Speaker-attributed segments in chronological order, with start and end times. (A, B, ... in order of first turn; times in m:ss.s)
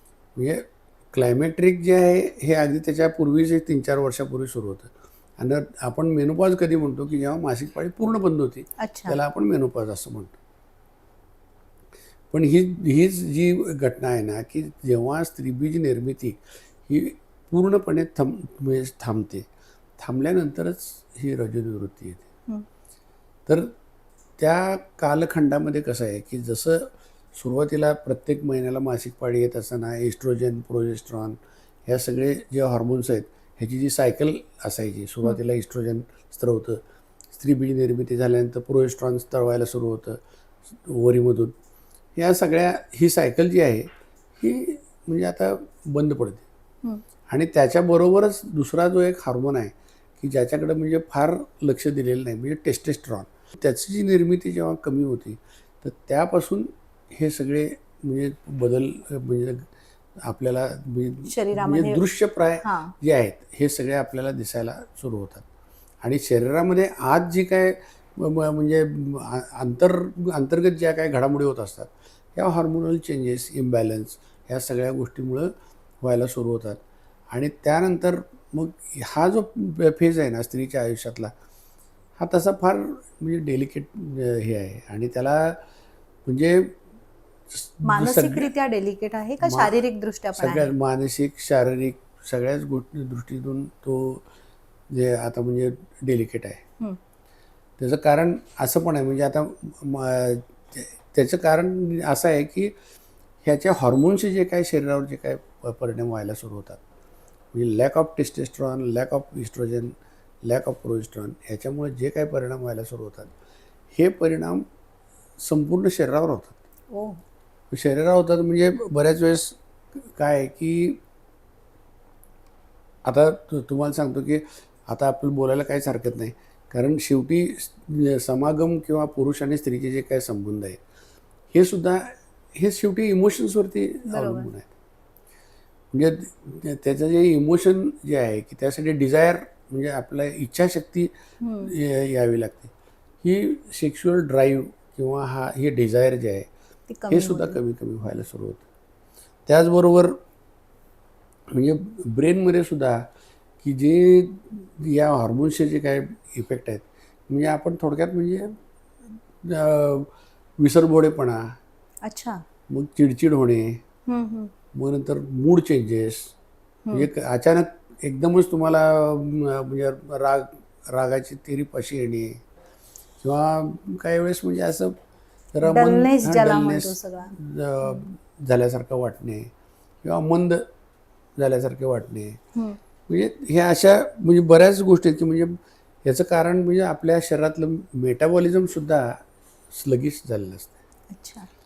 0:00.3-0:10.3 A
0:08.8-0:09.2 B
0:12.3-0:19.5 A
0:20.0-0:22.2 A
0:23.4-0:23.7 A
0:24.4-0:36.8 A
0:37.3-0:41.5 A
0:42.2-0:46.4 A
0:47.3-1:05.4 A
1:01.3-1:02.0 B
1:02.6-1:02.9 B
1:06.0-1:21.3 A
1:22.2-1:25.6 A
1:26.2-1:26.8 A
1:27.5-1:28.5 A
1:27.8-1:30.7 B
1:29.4-1:29.8 A
1:30.4-1:34.2 A
1:34.9-1:36.6 A
1:37.8-1:42.7 A
1:43.4-1:46.8 A
1:47.5-1:53.3 A
1:53.9-1:54.6 A
1:55.4-1:56.6 A
1:56.9-1:57.2 B
1:57.7-2:01.0 A
2:03.0-2:10.8 A
2:11.5-2:14.7 A
2:14.1-2:14.5 B
2:15.9-2:21.1 A
2:21.4-2:21.7 B
2:21.6-2:26.5 A
2:26.9-2:27.6 B
2:27.1-2:28.6 A
2:29.4-2:30.2 A
2:31.5-2:33.1 A
2:33.6-2:38.6 A
2:39.4-2:41.6 A
2:42.0-2:42.4 B
2:42.7-2:43.8 A
2:44.1-2:44.5 B
2:44.7-2:46.3 A
2:46.9-2:52.4 A
2:53.2-2:55.0 A
2:55.5-2:59.5 A
2:55.6-2:58.1 B
3:00.0-3:00.7 A
3:01.4-3:02.4 A
3:03.1-3:09.2 A
3:09.7-3:10.7 A
3:11.1-3:11.5 B